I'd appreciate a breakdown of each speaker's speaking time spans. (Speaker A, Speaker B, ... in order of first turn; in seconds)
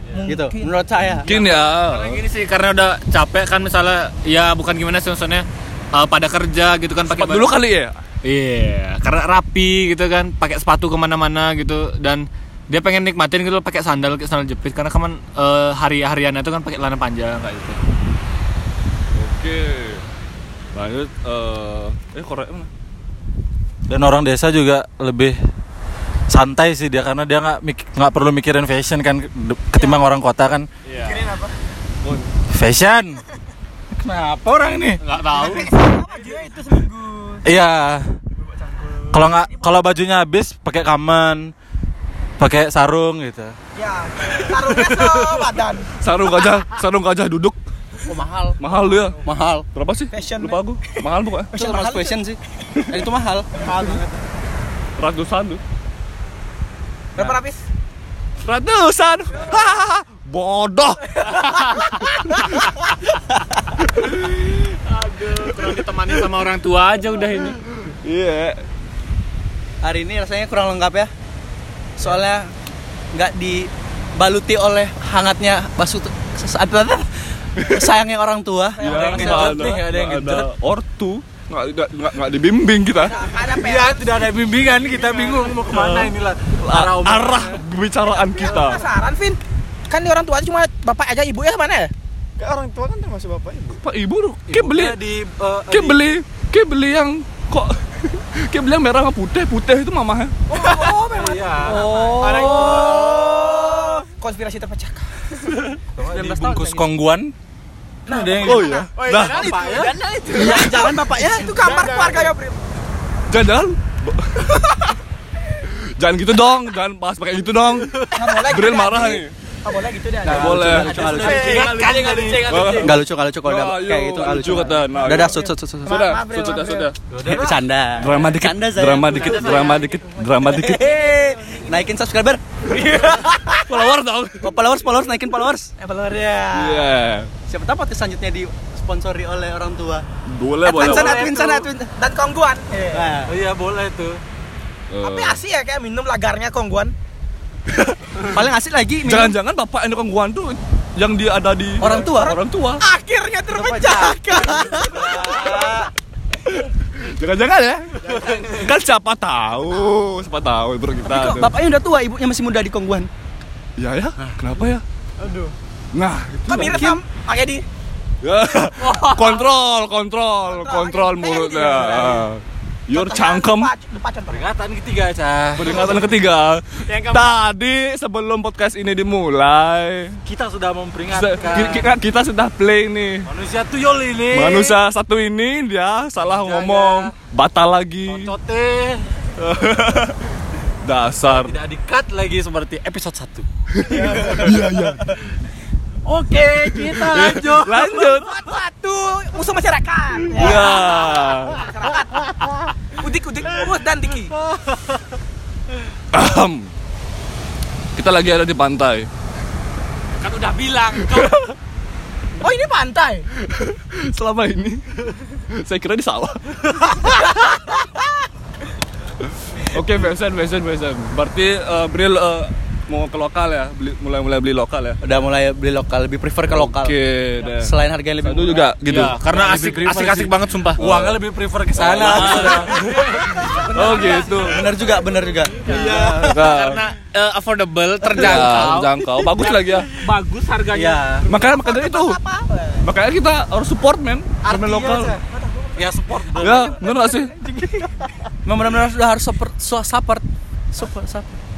Speaker A: 0.1-0.9, 31.0-31.5, 35.3-37.5, 39.1-39.7, 43.8-45.9, 48.1-48.5, 50.1-51.0, 51.5-52.2, 53.6-54.0, 57.1-57.6, 78.7-79.8, 83.0-84.3, 88.1-89.4, 89.9-91.9, 100.5-105.0, 108.1-108.9, 110.2-112.6, 118.1-121.7, 124.9-126.9, 129.2-131.9, 132.7-133.7, 135.8-136.9, 140.8-141.1, 142.0-143.1, 145.0-146.9, 151.8-155.9, 166.5-167.6, 170.4-172.3, 172.9-174.5, 197.9-204.3, 212.4-213.3, 217.3-217.9, 241.2-242.9, 245.2-245.9
Speaker B: 0.2-1.3, 49.2-49.6, 51.5-53.5, 69.8-71.1, 72.0-72.5, 73.1-78.8, 101.6-104.0, 106.1-106.9, 110.3-111.6, 120.2-121.7, 122.8-126.0, 127.2-129.8, 130.4-132.4, 134.4-135.7, 137.5-140.1, 140.6-141.9, 142.9-143.3, 148.2-149.3, 151.8-152.3, 153.5-155.9, 161.0-163.1, 166.6-167.0, 225.0-226.9, 227.6-228.7, 232.0-232.4, 234.3-235.8, 248.4-251.4
Speaker C: 1.2-2.2, 7.0-8.0, 19.1-20.1, 20.7-22.7, 32.0-32.3, 46.0-47.6, 48.6-49.2, 49.7-51.5, 55.0-55.6, 58.4-62.7, 63.8-64.3, 67.8-68.6, 78.8-83.2, 85.7-88.8, 93.8-95.0, 95.7-100.3, 108.4-109.6, 113.3-114.8, 116.0-119.3, 120.2-121.5, 122.4-127.4, 128.0-130.9, 133.5-134.5, 136.5-137.3, 140.3-141.3, 144.9-145.4, 149.0-152.8, 157.0-161.5, 163.8-164.8, 165.9-166.9, 168.2-173.7, 175.6-180.2, 181.1-183.3, 184.3-188.3, 189.4-190.2, 190.8-191.6, 193.8-195.2, 196.6-198.5, 200.3-201.7, 206.1-206.7, 207.9-209.1, 213.4-217.2, 219.6-225.0, 226.5-229.8, 230.8-234.7, 235.9-236.8, 238.1-239.9, 241.2-242.2, 242.8-245.2, 246.3-247.3
Speaker D: 1.3-7.5, 8.2-17.8, 30.8-31.3, 35.0-35.7, 61.3-62.0, 64.7-67.6, 168.8-169.4, 210.2-211.4, 228.9-230.8, 232.1-232.7, 235.6-241.0
Speaker E: 23.9-25.4, 26.3-30.7, 32.5-33.2, 34.0-35.0, 37.4-38.1, 39.1-41.5, 42.4-43.5, 44.7-45.2, 78.8-80.5, 83.4-87.6, 94.5-96.0, 100.8-102.7, 106.0-107.3, 108.1-110.0, 120.5-122.8, 127.1-127.6, 140.8-141.7, 143.2-144.2, 174.3-176.0, 180.2-181.9, 183.2-184.8, 186.2-187.1, 188.1-189.1, 191.3-194.6, 196.0-198.1, 204.5-205.0, 229.3-234.4, 235.7-236.4, 240.7-241.3, 244.4-245.2, 245.8-246.9
Speaker F: 92.4-93.8, 102.2-103.1, 109.0-110.6, 111.6-112.3, 121.2-122.9, 158.1-158.6